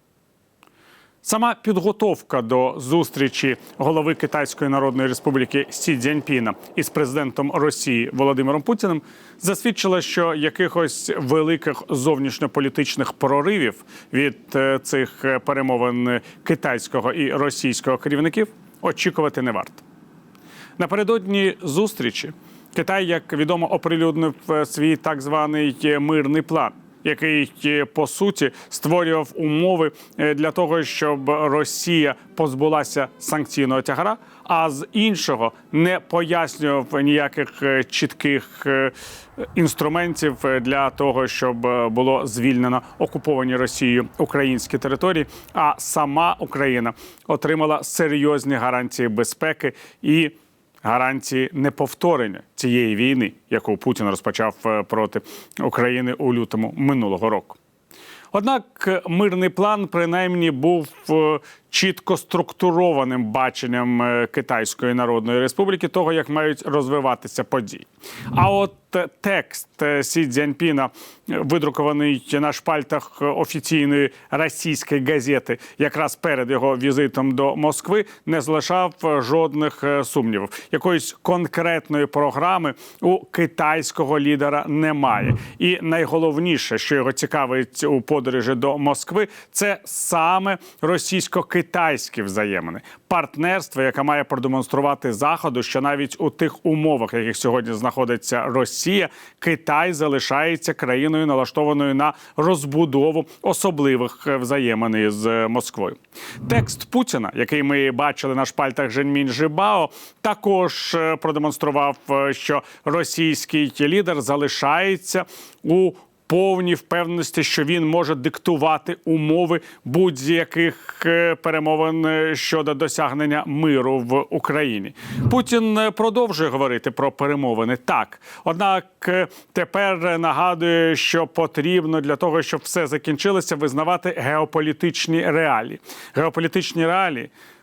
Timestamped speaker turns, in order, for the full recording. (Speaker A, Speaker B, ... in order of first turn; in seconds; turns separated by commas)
Speaker A: 1.2-19.8, Speaker A: 20.8-57.6, Speaker A: 58.3-137.3